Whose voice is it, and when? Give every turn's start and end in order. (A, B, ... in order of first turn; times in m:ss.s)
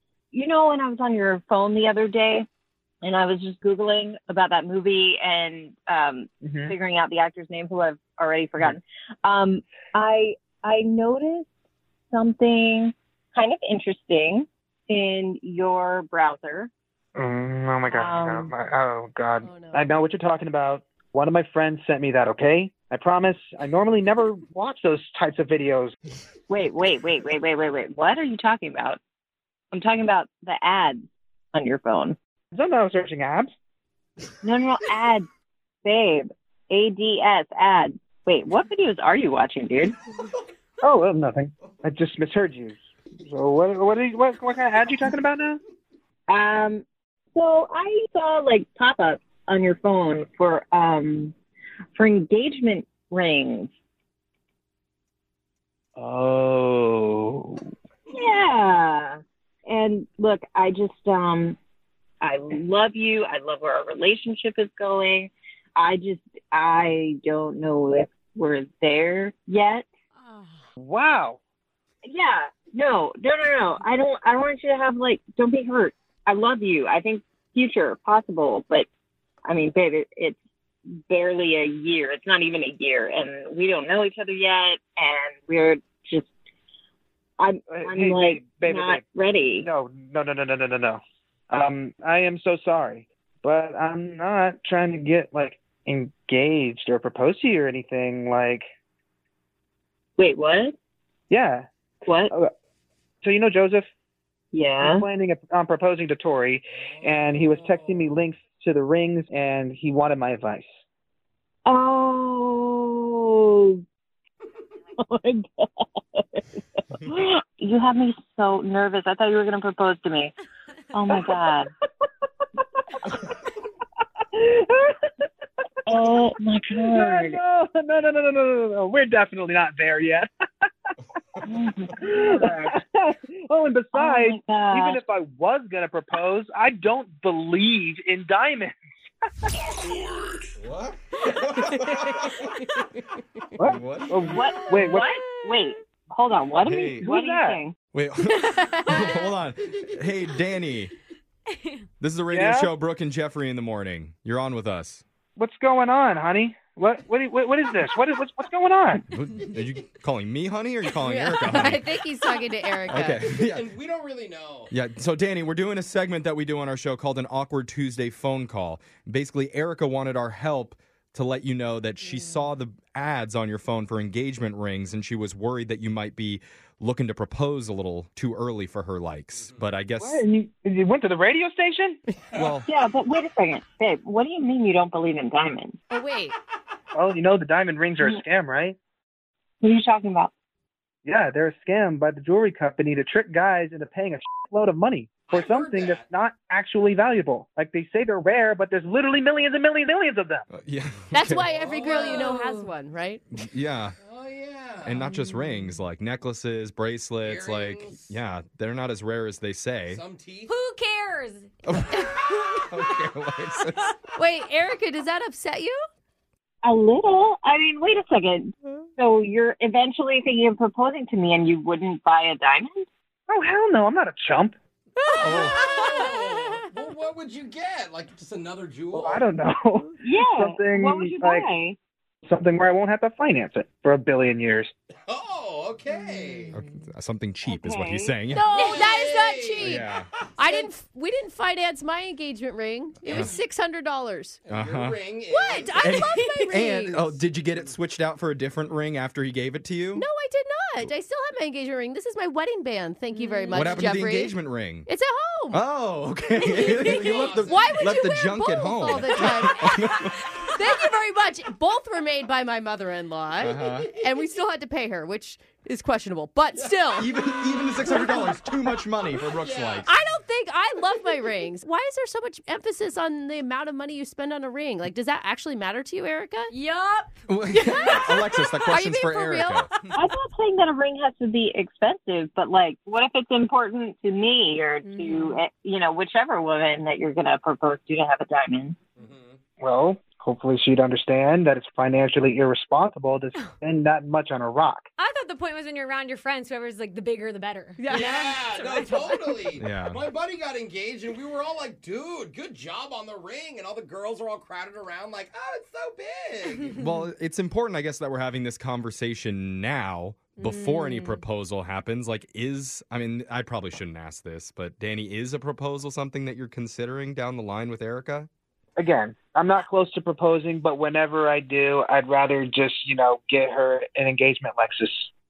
0:00.3-0:02.4 A
0:03.0-0:11.5 A
0:06.4-0:06.8 B
0:12.1-0:16.7 A
0:17.1-0:25.9 B
0:17.8-0:18.5 A
0:19.4-0:19.8 C
0:26.5-0:29.0 A
0:29.7-0:32.2 A
0:32.5-0:33.5 B
0:34.4-0:35.3 A
0:35.8-0:40.0 A
0:40.8-0:45.6 B
0:46.3-0:51.3 A
0:52.0-0:53.7 A
0:56.0-0:57.7 B
0:58.1-1:01.6 A
1:02.2-1:09.9 A
1:10.2-1:10.6 D
1:10.8-1:11.4 B
1:12.0-1:18.9 A
1:19.4-1:20.4 A
1:21.0-1:26.3 A
1:27.4-1:29.7 A
1:27.7-1:29.0 B
1:29.6-1:38.6 B
1:40.2-1:40.8 A
1:41.3-1:41.7 B
1:42.0-1:42.3 A
1:43.2-1:43.9 B
1:44.5-1:45.1 A
1:44.8-1:50.7 B
1:46.7-1:48.1 E
1:51.6-1:53.8 A
1:55.0-2:00.3 A
2:00.9-2:01.7 A
2:01.2-2:01.5 B
2:04.3-2:05.1 B
2:05.9-2:07.4 A
2:06.7-2:10.3 B
2:11.4-2:12.8 A
2:12.0-2:18.8 B
2:13.9-2:15.0 A
2:20.6-2:22.6 F
2:21.8-2:22.6 D
2:23.6-2:25.3 B
2:23.6-2:24.5 F
2:24.3-2:27.7 A
2:26.6-2:27.0 F
2:27.0-2:27.6 B
2:27.9-2:30.9 F
2:28.4-2:29.1 C
2:31.5-2:31.8 D
2:32.0-2:35.0 F
2:32.3-2:32.7 B
2:35.4-2:39.0 B
2:39.1-2:41.9 F
2:41.0-2:43.2 C
2:42.9-2:43.7 F
2:42.9-2:44.7 E
2:44.7-3:00.2 F
2:59.4-2:59.6 E
3:00.0-3:02.0 B
3:02.3-3:02.7 F
3:02.6-3:05.8 A
3:05.9-3:06.3 C
3:06.9-3:08.8 B
3:09.6-3:10.3 A
3:11.0-3:20.4 B
3:15.2-3:16.1 E
3:20.5-3:21.6 F
3:21.1-3:23.2 C
3:21.5-3:22.3 E
3:21.8-3:22.7 D
3:23.3-3:24.0 F
3:24.0-3:25.0 E
3:24.8-3:30.0 F
3:27.2-3:28.1 E
3:29.9-3:30.5 E
3:30.4-3:32.7 D
3:31.6-3:34.0 F
3:34.1-3:35.8 C
3:36.6-3:42.8 A
3:43.3-3:44.6 B
3:45.0-3:45.6 C
3:45.1-3:49.2 E
3:45.2-3:45.5 F
3:48.9-3:51.5 B
3:50.0-3:51.8 A
3:52.2-3:54.7 B
3:55.1-3:56.6 E
3:56.5-3:58.4 F
3:57.4-3:58.1 A
3:58.3-3:59.9 C
3:58.5-4:00.7 E
3:59.6-4:00.0 F
4:00.4-4:04.4 C
4:03.1-4:03.4 E
4:03.1-4:03.4 F
4:04.4-4:07.7 E
4:04.5-4:05.0 F
4:05.3-4:06.8 C
4:05.7-4:10.0 F
4:10.0-4:15.6 C
4:13.1-4:13.7 D
4:13.5-4:14.9 F
4:15.5-4:20.1 F
4:16.5-4:17.9 E
4:16.6-4:17.3 D
4:16.9-4:19.9 C
4:20.5-4:27.1 C
4:23.4-4:23.9 F
4:23.5-4:24.2 E
4:26.5-4:28.0 E
4:27.0-4:29.9 F
4:29.2-4:29.9 E
4:29.8-4:36.5 C
4:36.5-4:37.2 D
4:37.3-4:39.7 F
4:37.5-4:39.7 C
4:39.9-4:48.8 A
4:44.8-4:45.4 D
4:49.0-4:49.4 E
4:49.6-4:54.8 B
4:55.0-4:59.5 D
4:57.8-4:58.2 C
4:57.9-5:06.8 E
4:59.6-5:00.0 F
5:06.8-5:18.3 F
5:10.4-5:11.2 D
5:18.8-5:25.1 B